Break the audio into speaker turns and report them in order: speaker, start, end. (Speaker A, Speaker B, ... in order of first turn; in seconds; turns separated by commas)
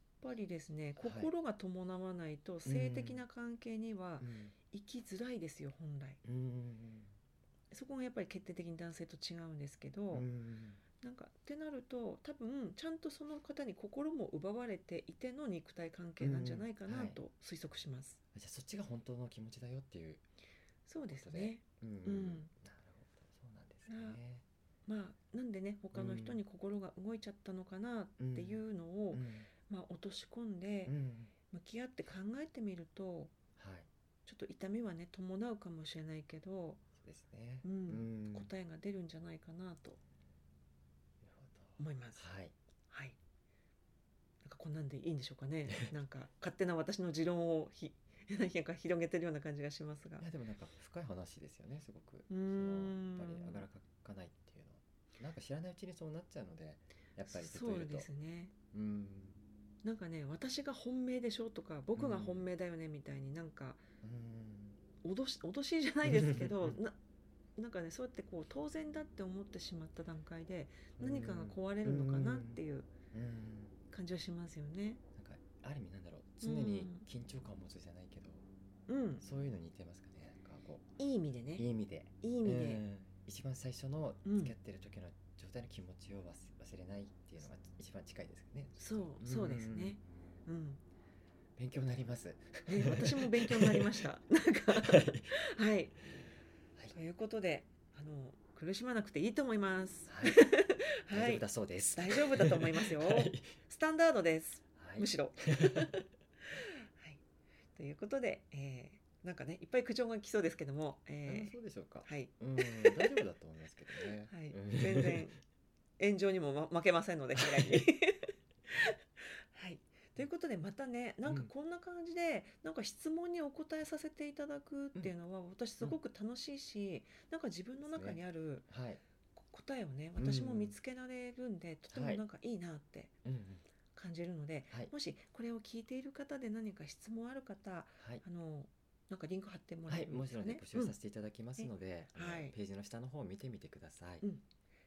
Speaker A: 0.2-6.2, Speaker B: 1.0-1.3, Speaker B: 2.6-3.2, Speaker B: 4.2-4.5, Speaker B: 6.2-7.2, Speaker A: 7.7-10.3, Speaker B: 10.1-10.8, Speaker A: 11.0-18.2, Speaker B: 16.2-17.2, Speaker B: 18.3-20.2, Speaker A: 20.9-22.5, Speaker B: 21.1-24.4, Speaker A: 23.9-24.2, Speaker A: 24.9-30.9, Speaker B: 25.9-26.4, Speaker B: 28.2-29.5, Speaker B: 30.9-31.3, Speaker A: 31.5-33.4, Speaker B: 33.6-33.9, Speaker A: 34.2-36.8, Speaker B: 37.0-38.5, Speaker A: 37.6-40.0, Speaker B: 41.2-42.5, Speaker A: 41.8-42.3, Speaker A: 42.9-43.2, Speaker A: 44.4-50.3, Speaker B: 50.2-58.1, Speaker A: 52.3-53.6, Speaker A: 57.3-58.5, Speaker B: 58.7-59.4, Speaker A: 59.8-63.8, Speaker B: 61.9-62.5, Speaker B: 64.0-64.8, Speaker A: 65.0-67.0, Speaker B: 66.0-66.8, Speaker A: 67.5-72.9, Speaker B: 71.0-72.6, Speaker B: 73.1-73.8, Speaker A: 73.9-75.0, Speaker B: 75.1-78.5, Speaker A: 76.4-77.0, Speaker A: 78.9-79.2, Speaker B: 79.2-80.9, Speaker A: 81.0-81.7, Speaker B: 81.5-90.0, Speaker A: 82.2-82.8, Speaker A: 84.2-84.5, Speaker A: 88.8-90.8, Speaker B: 91.6-94.1, Speaker A: 92.7-96.0, Speaker B: 94.8-95.3, Speaker A: 96.9-107.2, Speaker B: 100.1-100.4, Speaker B: 101.1-103.5, Speaker B: 104.8-106.0, Speaker A: 107.8-113.2, Speaker B: 111.2-115.3, Speaker A: 114.2-115.3, Speaker A: 116.0-128.7, Speaker B: 117.4-117.8, Speaker B: 121.2-121.5, Speaker B: 127.8-129.0, Speaker A: 129.3-133.1, Speaker B: 130.2-130.8, Speaker B: 131.9-132.2, Speaker B: 133.2-133.6, Speaker A: 133.9-140.9, Speaker B: 138.0-138.2, Speaker B: 139.9-144.2, Speaker A: 141.6-142.6, Speaker A: 144.2-144.4